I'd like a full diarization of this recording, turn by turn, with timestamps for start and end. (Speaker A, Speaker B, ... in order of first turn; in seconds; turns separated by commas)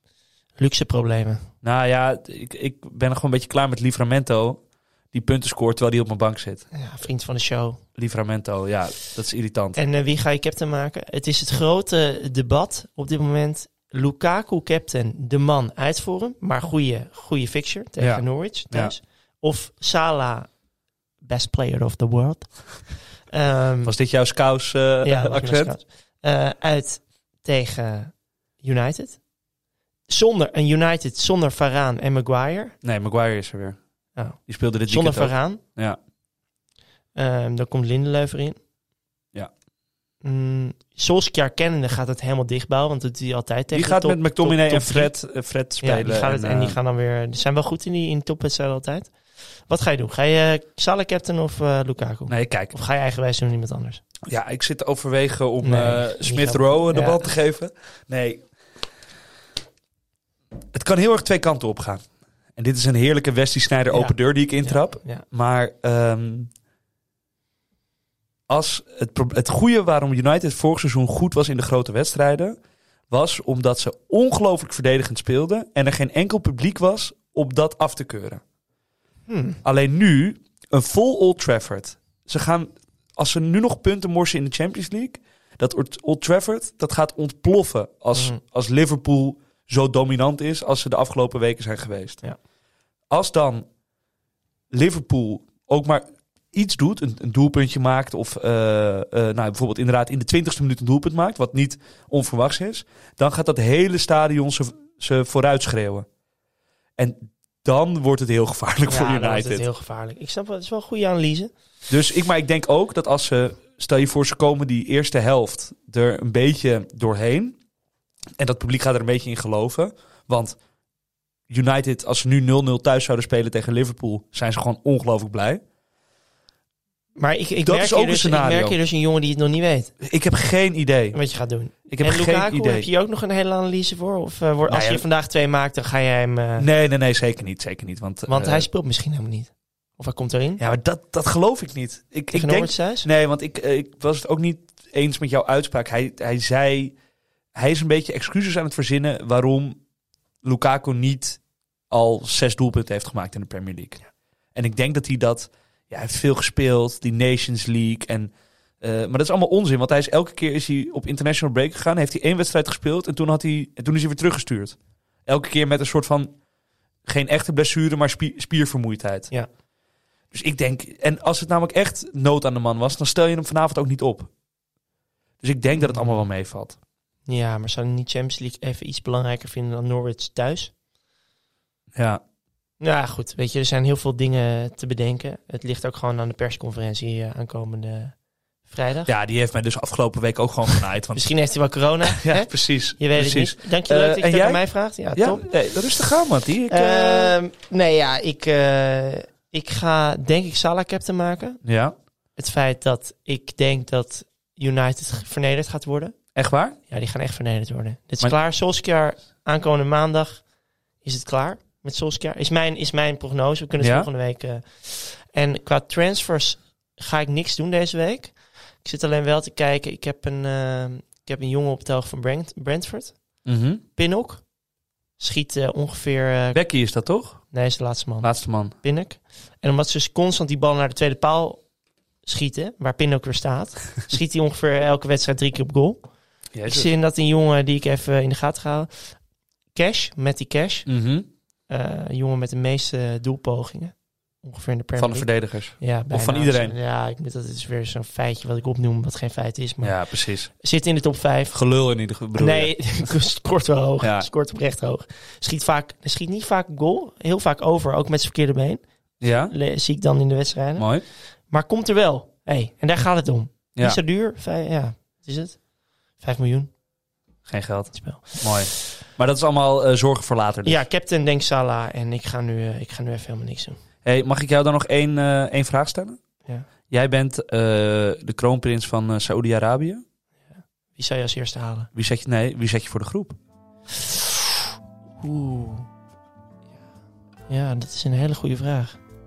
Speaker A: 0.6-1.4, Speaker B: 1.6-6.6, Speaker A: 6.7-7.8, Speaker B: 8.0-9.8, Speaker A: 9.8-20.5, Speaker B: 18.0-18.9, Speaker A: 21.2-23.9, Speaker B: 23.8-25.7, Speaker A: 25.0-29.2, Speaker A: 30.1-32.8, Speaker B: 32.8-33.8, Speaker A: 34.1-35.6, Speaker B: 34.5-36.0, Speaker A: 37.1-38.6, Speaker A: 40.2-45.1, Speaker B: 43.7-46.8, Speaker A: 45.8-54.0, Speaker B: 52.3-52.7, Speaker B: 54.2-58.5, Speaker A: 55.6-57.2, Speaker B: 60.7-66.5, Speaker A: 63.9-65.2, Speaker B: 68.5-72.6, Speaker B: 73.1-78.4, Speaker A: 79.3-79.6, Speaker B: 79.6-92.2, Speaker A: 88.1-88.4, Speaker B: 93.1-93.7, Speaker B: 94.7-106.0, Speaker B: 107.0-109.6, Speaker A: 108.9-111.5, Speaker B: 111.9-117.6, Speaker B: 118.4-120.6, Speaker B: 121.5-125.6, Speaker A: 127.2-129.9, Speaker B: 127.6-128.8, Speaker B: 130.0-131.2, Speaker A: 131.1-136.7, Speaker B: 131.9-132.9, Speaker B: 134.7-135.1, Speaker B: 136.6-138.7, Speaker A: 138.3-140.6, Speaker B: 140.6-146.9, Speaker A: 142.3-143.1, Speaker B: 147.5-149.8, Speaker B: 150.4-154.0, Speaker B: 154.5-166.3, Speaker B: 167.1-169.3, Speaker B: 170.3-174.3, Speaker B: 175.4-176.8, Speaker A: 175.8-176.2, Speaker A: 177.2-180.7, Speaker B: 181.9-182.2, Speaker A: 182.8-189.1, Speaker B: 189.1-191.2, Speaker A: 191.1-195.5, Speaker B: 192.1-194.6, Speaker B: 195.1-197.3, Speaker A: 196.7-201.6, Speaker B: 201.6-201.9, Speaker A: 202.3-206.2, Speaker B: 206.3-206.8, Speaker A: 206.9-210.4, Speaker A: 211.0-223.2, Speaker B: 213.8-214.1, Speaker B: 223.4-223.8, Speaker A: 223.9-224.4, Speaker A: 225.2-226.6, Speaker B: 226.5-227.4, Speaker A: 227.5-231.6, Speaker B: 228.2-228.7, Speaker A: 232.2-236.1, Speaker B: 236.5-236.9, Speaker A: 236.7-239.2, Speaker A: 239.7-240.8, Speaker B: 240.9-241.3, Speaker A: 241.7-251.6, Speaker B: 245.0-246.7, Speaker B: 249.8-250.5, Speaker B: 251.5-253.1, Speaker A: 252.3-258.8, Speaker B: 254.0-254.3, Speaker B: 259.2-259.5, Speaker A: 259.5-265.6, Speaker B: 260.8-261.0, Speaker A: 266.2-266.7, Speaker B: 267.5-270.9, Speaker A: 267.9-268.8, Speaker A: 270.6-273.8, Speaker B: 274.0-276.2, Speaker B: 276.9-280.0, Speaker A: 280.9-281.9, Speaker B: 281.9-283.4, Speaker A: 284.0-284.3, Speaker A: 285.2-285.9, Speaker A: 287.5-289.0